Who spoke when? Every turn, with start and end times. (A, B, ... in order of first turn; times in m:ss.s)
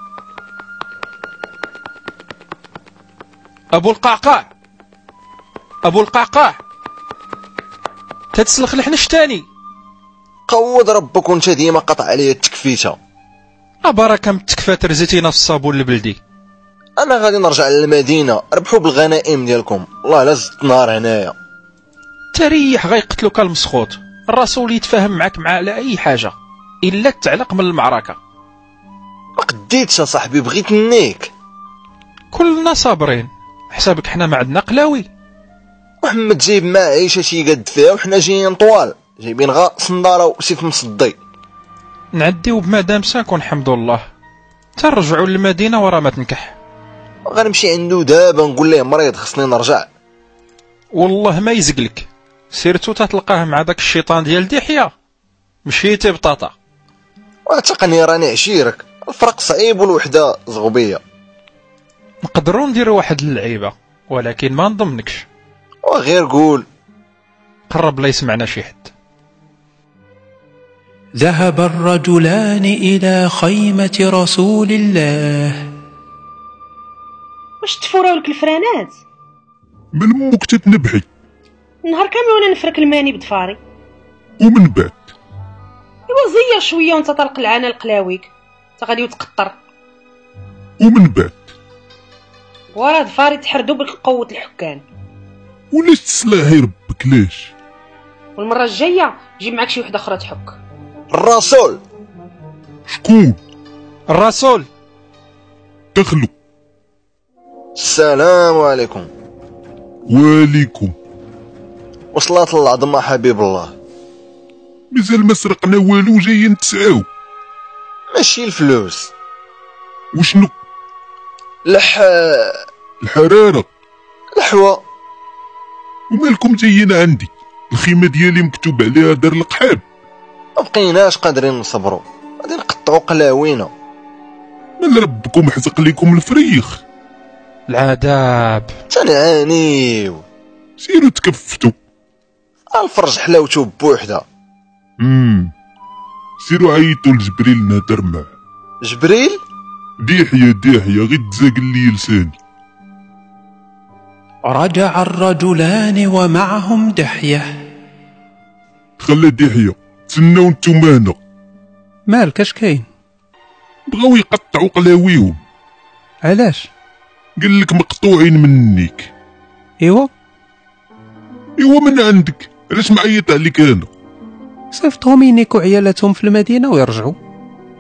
0:03.7-0:04.5 A
0:05.8-0:06.6 A
0:08.3-0:09.4 A
0:10.5-0:13.0 B
0:13.8-0:16.2 A
0:17.0-0:21.3 B
0:22.3-0:28.2 A
0:29.4-0:31.3 B
0:32.3-0:35.1 A
0:36.0-0:41.2 B
0:42.1-0:44.0 A
0:44.8-0:46.6 A
0:47.3-0:49.9 B
0:50.9-0:54.9 A
0:55.7-0:56.5 A
0:57.5-1:01.0 B
1:02.2-1:05.3 A
1:05.9-1:06.7 B
1:07.7-1:08.9 A
1:11.2-1:15.7 C
1:17.6-1:19.0 D
1:20.0-1:21.1 E
1:21.8-1:23.6 D
1:24.4-1:25.1 E
1:26.1-1:29.6 D
1:30.8-1:31.3 E
1:32.7-1:34.8 D
1:35.7-1:37.5 E
1:38.4-1:40.6 D
1:41.1-1:41.8 B
1:42.9-1:43.4 E
1:44.1-1:44.7 A
1:45.9-1:46.3 E
1:47.8-1:49.1 B
1:50.1-1:51.0 E
1:52.1-1:53.7 B
1:54.9-1:57.1 E
1:58.1-1:59.1 B
2:00.1-2:00.5 E
2:01.7-2:02.6 B
2:03.0-2:03.7 E
2:04.4-2:04.8 B
2:06.1-2:09.8 E
2:10.6-2:13.7 B
2:14.8-2:16.8 E
2:17.7-2:18.7 A
2:18.9-2:20.2 B
2:20.8-2:21.8 E
2:22.7-2:24.2 B
2:25.0-2:25.5 E
2:26.4-2:28.3 E
2:28.8-2:29.4 B
2:30.0-2:32.4 E
2:34.5-2:37.5 C
2:39.0-2:41.2 E
2:42.1-2:42.9 C
2:43.9-2:45.4 E
2:46.2-2:46.7 C
2:47.4-2:49.1 E
2:49.8-2:50.1 C
2:51.6-2:53.9 E
2:54.7-2:57.2 C